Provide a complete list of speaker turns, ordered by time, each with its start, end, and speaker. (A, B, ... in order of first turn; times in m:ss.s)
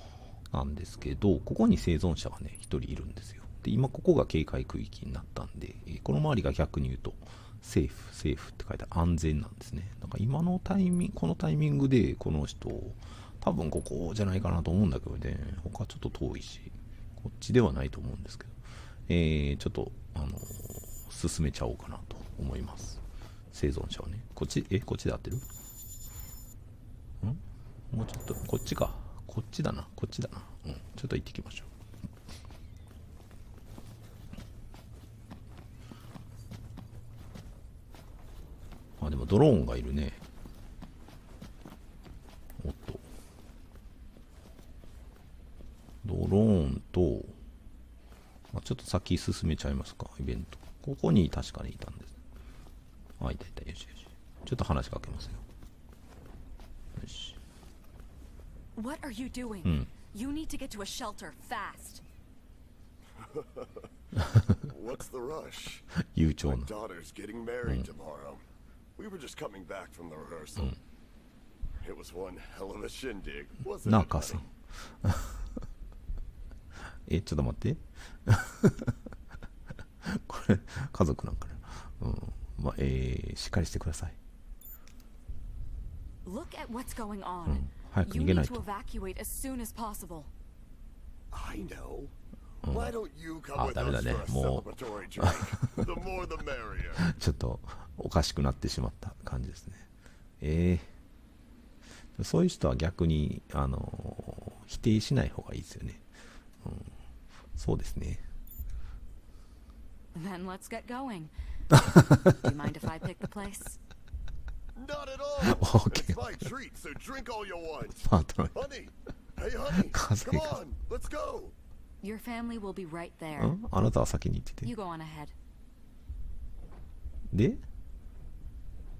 0:00.5-0:23.0 A
0:23.5-0:25.5 A
0:27.2-0:31.7 A
0:39.0-0:40.2 A
0:42.6-0:43.0 A
0:46.0-0:47.4 A
0:48.5-0:52.1 A
0:53.2-0:55.4 A
0:57.0-0:57.4 A
0:58.8-1:02.0 B
1:03.3-1:03.6 C
1:04.4-1:05.9 C
1:06.1-1:06.7 A
1:06.4-1:08.4 C
1:09.0-1:10.8 C
1:11.8-1:14.4 C
1:13.8-1:14.5 A
1:15.0-1:15.4 A
1:17.1-1:19.0 A
1:20.0-1:24.2 A
1:26.2-1:30.3 B
1:27.5-1:28.6 A
1:31.3-1:32.1 C
1:32.6-1:33.0 A
1:32.7-1:37.0 C
1:33.5-1:34.7 A
1:35.2-1:35.8 A
1:37.0-1:39.9 A
1:40.4-1:40.9 A
1:42.2-1:46.0 A
1:46.6-1:46.9 A
1:47.6-1:48.2 A
1:50.1-1:51.3 B
1:51.7-1:52.2 A
1:51.9-1:53.8 B
1:54.8-2:01.5 C
1:55.5-1:56.2 A
1:58.0-1:58.6 A
1:59.8-2:00.6 A
2:02.0-2:03.6 B
2:03.4-2:04.7 A
2:04.6-2:05.3 B
2:07.3-2:07.6 A